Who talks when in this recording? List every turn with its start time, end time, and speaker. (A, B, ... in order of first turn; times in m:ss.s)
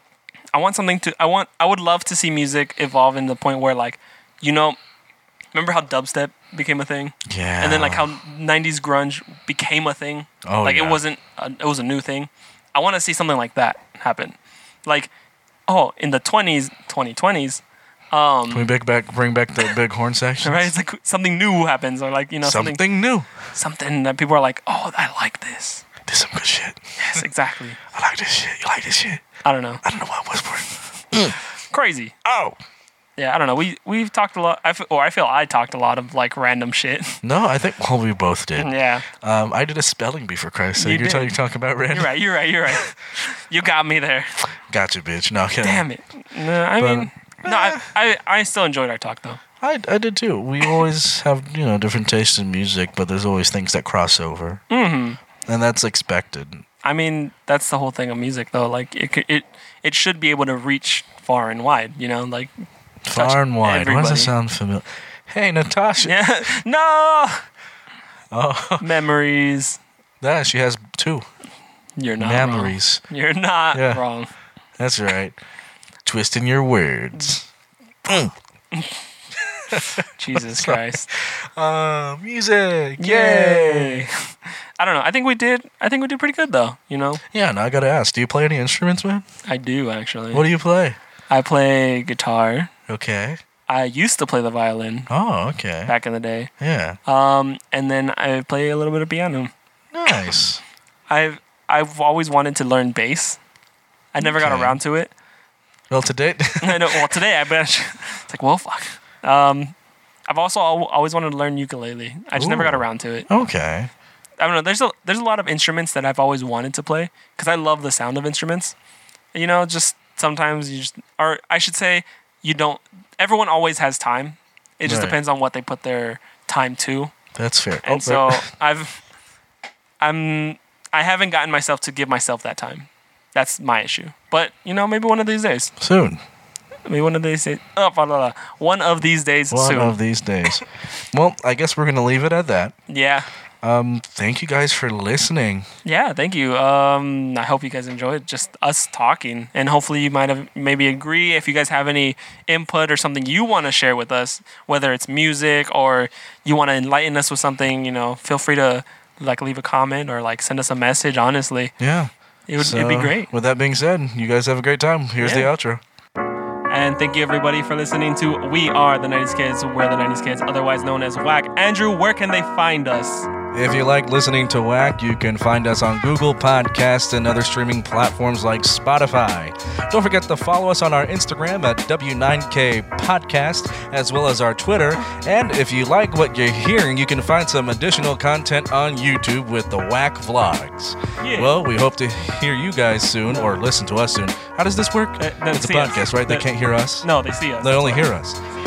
0:00.5-0:04.8 A
0:05.5-0:15.1 A
0:07.2-0:08.1 B
0:10.4-0:11.0 B
0:15.7-0:18.7 A
0:18.5-0:20.7 B
0:20.4-0:22.8 A
0:22.4-0:23.3 B
0:23.5-0:25.8 A
0:26.1-0:27.3 B
0:27.0-0:27.8 A
0:27.9-0:29.2 B
0:29.4-0:29.8 A
0:29.8-0:31.4 B
0:31.7-0:32.1 A
0:32.2-0:32.6 B
0:33.2-0:37.2 A
0:37.2-0:42.9 B
0:38.6-0:39.0 A
0:40.8-0:41.3 A
0:41.9-0:44.3 A
0:44.7-0:45.8 B
0:45.6-0:49.4 A
0:46.8-0:47.9 B
0:49.6-0:54.6 B
0:54.7-0:55.2 A
0:55.4-0:56.6 B
0:56.8-1:02.5 A
1:03.0-1:06.2 B
1:03.1-1:04.3 A
1:06.0-1:07.4 A
1:08.3-1:08.9 B
1:08.8-1:09.8 A
1:10.2-1:11.3 B
1:12.0-1:14.3 A
1:12.2-1:13.0 B
1:13.7-1:14.0 B
1:14.8-1:15.4 B
1:16.0-1:17.4 B
1:18.0-1:18.3 B
1:19.7-1:24.1 B
1:19.7-1:21.1 A
1:23.0-1:24.3 A
1:24.8-1:27.2 A
1:27.3-1:29.2 B
1:29.5-1:30.4 A
1:30.3-1:31.0 B
1:31.3-1:32.7 A
1:32.9-1:33.4 B
1:33.7-1:35.1 A
1:35.1-1:35.9 B
1:35.9-1:36.5 A
1:36.6-1:37.0 B
1:37.0-1:39.5 A
1:39.9-1:40.6 B
1:41.1-1:43.4 A
1:44.1-1:45.1 A
1:44.2-1:44.8 B
1:45.9-1:47.2 B
1:46.6-1:49.7 A
1:50.3-1:53.3 A
1:52.4-1:53.9 B
1:54.4-1:58.7 A
1:59.3-2:07.1 A
2:04.8-2:05.2 B
2:07.3-2:08.4 B
2:07.8-2:09.0 A
2:10.0-2:15.7 A
2:15.8-2:16.2 B
2:16.9-2:20.0 A
2:19.5-2:22.7 B
2:22.9-2:23.3 A
2:23.6-2:25.6 B
2:25.8-2:41.7 A
2:41.8-2:45.8 B
2:42.5-2:43.3 A
2:45.2-2:45.5 A
2:46.7-2:53.3 A
2:53.5-3:17.1 B
3:11.2-3:11.5 A
3:13.3-3:13.6 A
3:15.2-3:16.5 A
3:17.0-3:18.0 A
3:17.6-3:18.4 B